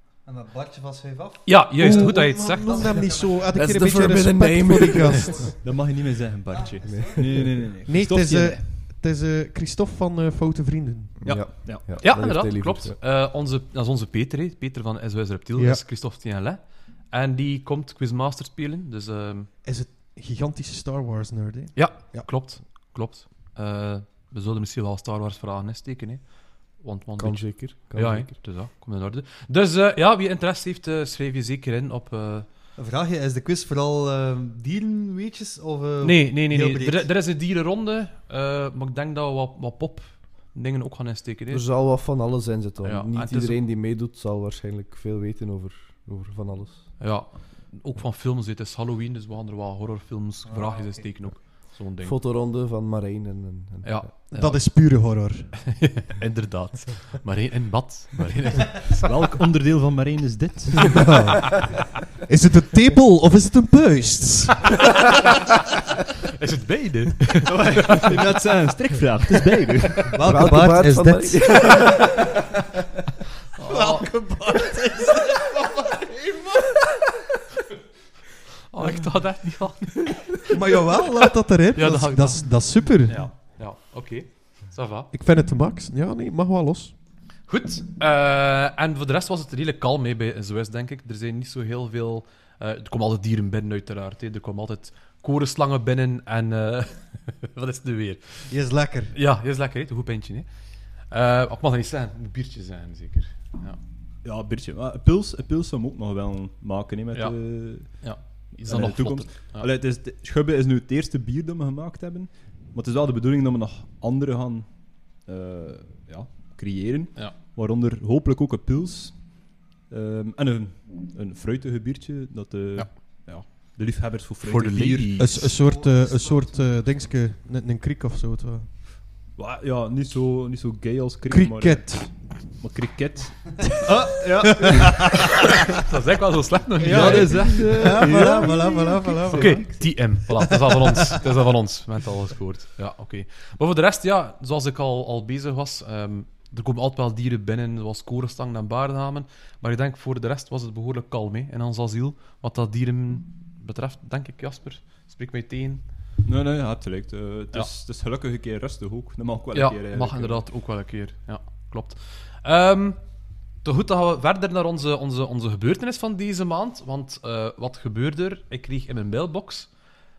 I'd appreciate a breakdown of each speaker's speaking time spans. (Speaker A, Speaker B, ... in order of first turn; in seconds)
Speaker A: 0.2-3.5, 5.2-5.5, 6.5-7.2, 32.8-37.1, 67.8-68.1, 70.1-71.8, 125.7-126.5
Speaker B: 1.4-2.8, 11.9-19.5, 21.7-32.5, 36.0-41.6, 42.8-43.6, 47.0-52.2, 53.8-55.1, 55.7-59.2, 66.3-68.1, 73.6-74.1, 78.7-80.5, 81.7-85.1, 87.5-98.5, 99.1-103.8, 107.1-109.7, 122.8-123.7, 124.4-125.5, 135.7-137.7, 139.3-155.8, 159.5-163.0, 163.6-169.7
Speaker C: 1.8-5.5, 7.9-11.2, 15.6-15.8, 19.6-22.3, 54.3-55.6, 60.9-64.9, 73.6-77.0, 80.5-83.3, 85.1-86.9, 98.5-99.1, 125.2-128.7, 131.3-132.1, 134.4-135.1, 136.8-140.0, 140.5-141.0
Speaker D: 3.5-5.5, 6.8-7.6, 11.2-13.0, 27.2-28.3, 41.5-46.9, 52.0-54.1, 70.2-72.2, 137.0-139.9
Speaker E: 5.6-8.7, 11.2-11.8, 58.9-61.1, 67.5-70.2, 104.2-125.4, 129.4-135.5, 136.8-138.6, 156.2-160.4